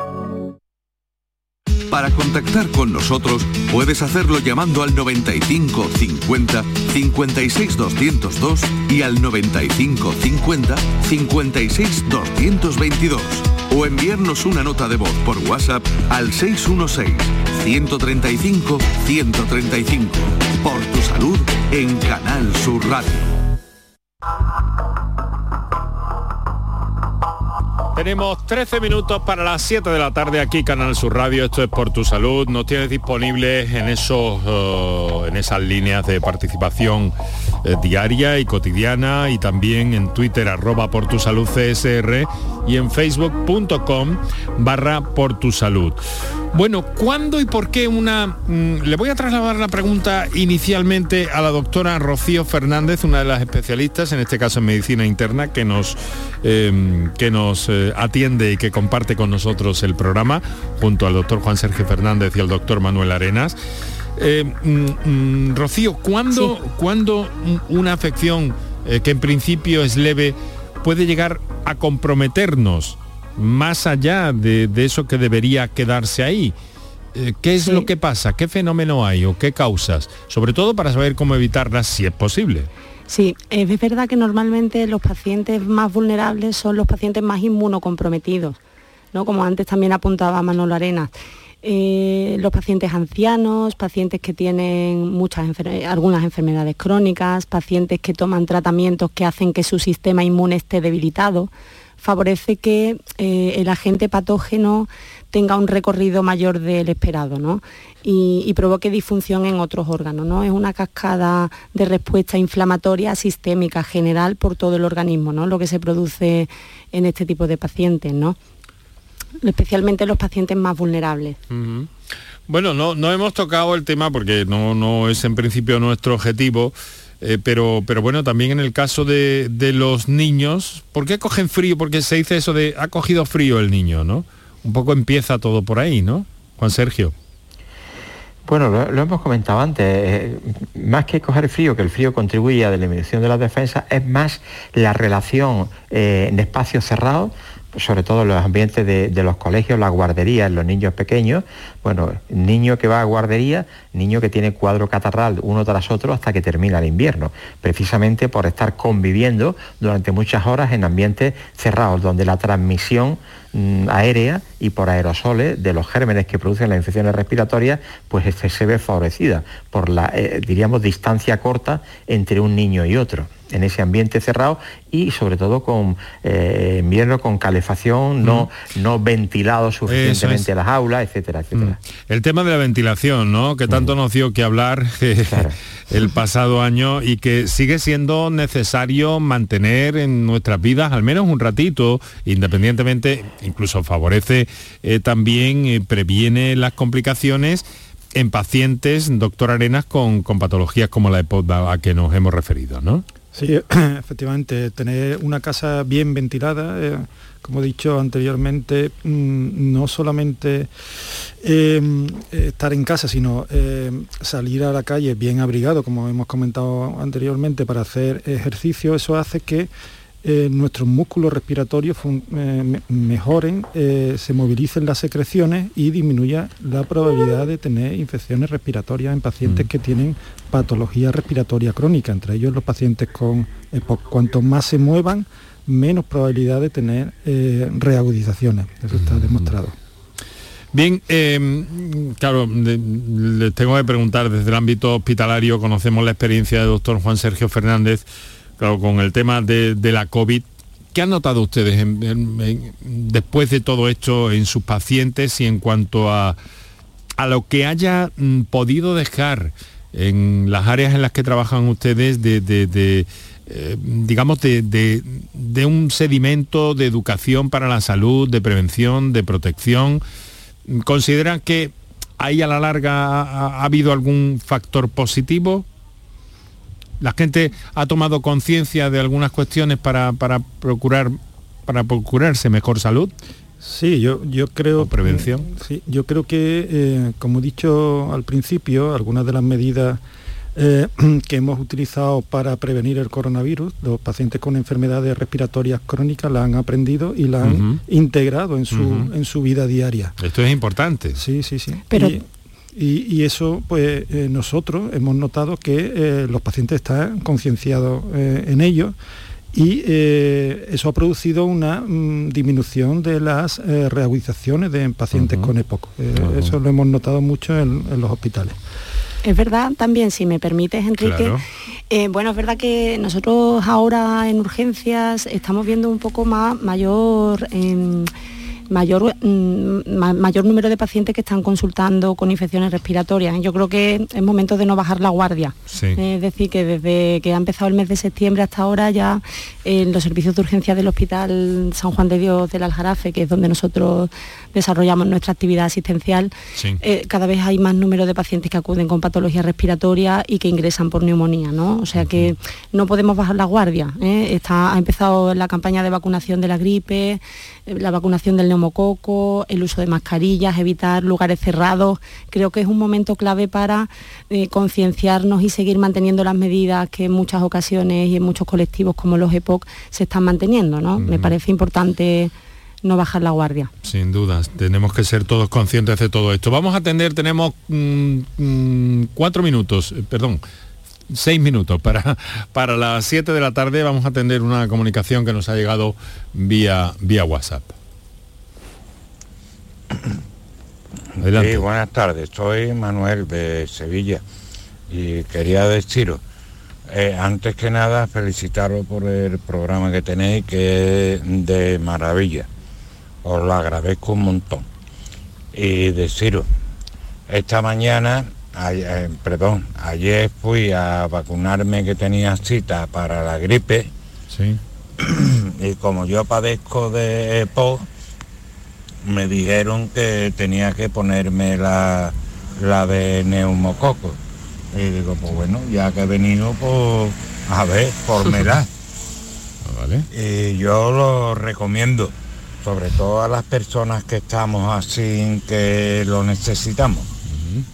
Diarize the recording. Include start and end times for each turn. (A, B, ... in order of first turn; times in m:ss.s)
0:01.9-0:23.3 A
0:27.9-0:37.1 B
0:37.6-0:46.0 B
0:46.5-1:03.6 B
1:04.2-1:16.5 B
1:17.1-1:22.7 B
1:23.1-1:28.6 C
1:29.1-1:58.4 C
1:59.4-2:01.4 C
2:01.5-2:01.9 B
2:02.5-2:17.1 B
2:18.4-3:01.8 D
2:59.9-3:00.5 B
3:01.6-3:23.0 B
3:23.3-3:30.7 E
3:31.4-3:39.7 E
3:40.2-3:59.7 E
3:58.9-3:59.5 B
4:00.7-4:08.0 B
4:08.6-4:16.4 B
4:17.2-4:30.0 B
4:30.7-4:35.6 B
4:37.0-4:43.1 B
4:43.6-4:50.0 E
4:44.8-4:45.5 B
4:50.6-5:00.1 E
4:57.4-4:57.8 B
4:58.7-4:59.1 B
5:00.2-5:01.2 B
5:01.1-5:02.2 E
5:01.9-5:02.2 C
5:02.7-5:08.9 E
5:09.5-5:18.5 E
5:15.1-5:15.5 B
5:16.2-5:16.5 B
5:19.2-5:28.1 C
5:21.0-5:21.4 B
5:28.7-6:12.3 C
5:35.7-5:36.0 B
5:52.0-5:52.3 B
6:11.0-6:11.3 B
6:12.8-6:13.7 C
6:13.8-6:20.4 B
6:21.1-6:27.7 B
6:31.2-6:34.2 F
6:31.2-6:31.7 B
6:34.9-6:36.2 F
6:36.9-6:42.5 F
6:43.2-6:44.6 F
6:45.5-6:46.5 F
6:47.3-6:53.9 F
6:54.3-6:54.6 B
6:55.0-6:57.9 F
6:59.0-7:04.2 F
7:04.7-7:08.7 F
7:09.6-7:10.1 B
7:10.1-7:17.1 F
7:17.3-7:17.6 B